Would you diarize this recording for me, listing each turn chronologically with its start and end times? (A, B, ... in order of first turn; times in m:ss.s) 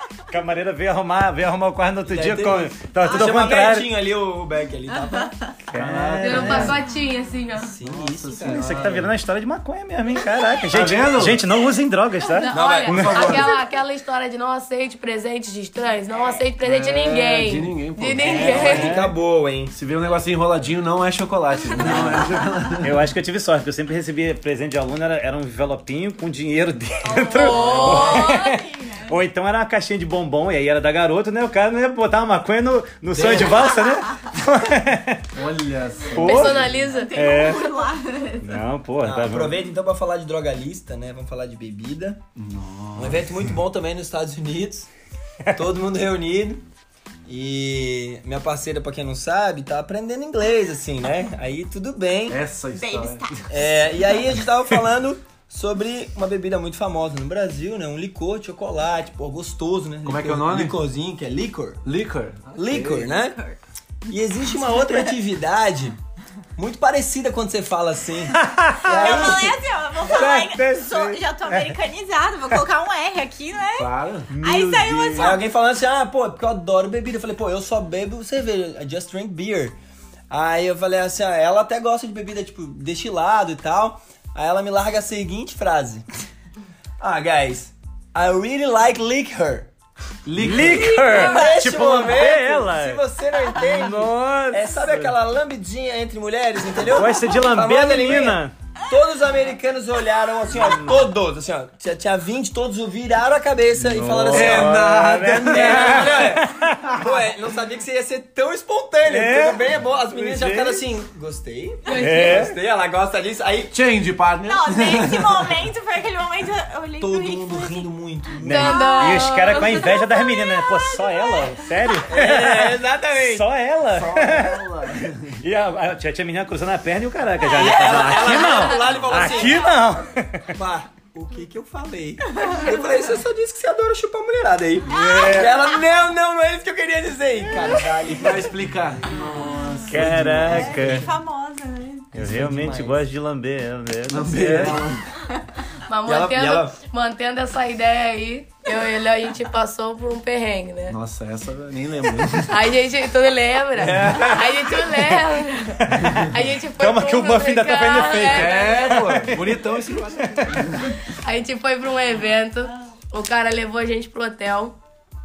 0:00.3-0:03.9 A
0:02.0-0:05.4 B
0:05.1-0:05.5 C
0:05.7-0:06.8 A
0:05.7-0:06.8 D
0:06.2-0:07.7 E
0:06.3-0:06.7 B
0:07.6-0:08.7 B
0:07.8-0:09.1 D
0:08.4-0:13.3 A
0:10.7-0:11.4 D
0:12.4-0:18.9 E
0:12.5-0:13.5 B
0:12.9-0:13.6 D
0:16.6-0:18.9 D
0:18.3-0:19.1 A
0:18.3-0:19.7 B
0:19.7-0:23.0 D
0:21.8-0:22.2 A
0:22.8-0:35.3 A
0:27.0-0:29.2 C
0:27.2-0:28.5 E
0:27.5-0:28.2 B
0:27.5-0:28.1 D
0:33.1-0:33.7 B
0:35.3-0:36.9 D
0:36.1-0:37.7 A
0:36.1-0:37.5 E
0:36.9-0:38.6 C
0:38.4-0:39.6 A
0:39.0-0:42.2 B
0:42.4-0:43.5 D
0:43.0-0:44.9 B
0:45.6-0:46.6 B
0:47.3-0:52.4 B
0:52.3-0:53.4 D
0:52.8-0:53.6 C
0:53.5-1:01.8 B
1:00.0-1:00.8 D
1:01.8-1:03.1 D
1:02.6-1:03.4 B
1:03.1-1:03.6 C
1:04.1-1:06.0 B
1:06.6-1:09.6 B
1:08.4-1:09.5 A
1:08.8-1:15.4 C
1:10.0-1:11.8 A
1:13.8-1:14.3 D
1:14.3-1:15.4 A
1:15.2-1:19.8 B
1:20.3-1:26.0 B
1:27.0-1:29.7 B
1:30.2-1:31.1 D
1:30.4-1:33.0 A
1:31.0-1:44.8 B
1:31.0-1:31.6 C
1:33.6-1:35.0 A
1:36.8-1:38.5 A
1:40.6-1:41.1 A
1:43.8-1:46.8 A
1:44.3-1:46.3 D
1:45.4-1:53.7 B
1:49.1-1:50.8 A
1:51.9-1:52.5 E
1:51.9-1:52.2 C
1:51.9-1:52.5 A
1:53.7-1:55.5 D
1:54.4-1:57.9 C
1:57.0-1:58.9 B
1:58.4-1:59.9 E
1:58.5-2:04.7 A
1:58.6-2:02.1 C
2:02.1-2:03.5 B
2:03.9-2:05.4 D
2:05.4-2:10.5 A
2:07.5-2:08.7 C
2:07.5-2:09.9 B
2:09.3-2:09.6 C
2:10.5-2:18.6 B
2:14.9-2:15.5 A
2:14.9-2:15.6 C
2:18.1-2:20.9 D
2:19.9-2:21.1 A
2:20.4-2:21.1 B
2:20.5-2:22.2 C
2:22.1-2:24.9 A
2:22.2-2:22.9 D
2:22.2-2:23.0 B
2:24.1-2:25.1 D
2:25.9-2:31.0 E
2:26.0-2:26.8 B
2:30.9-2:32.7 D
2:32.5-2:39.1 E
2:33.8-2:34.3 D
2:33.9-2:35.1 A
2:35.8-2:40.7 A
2:36.0-2:36.3 D
2:38.2-2:41.0 D
2:41.1-2:44.8 E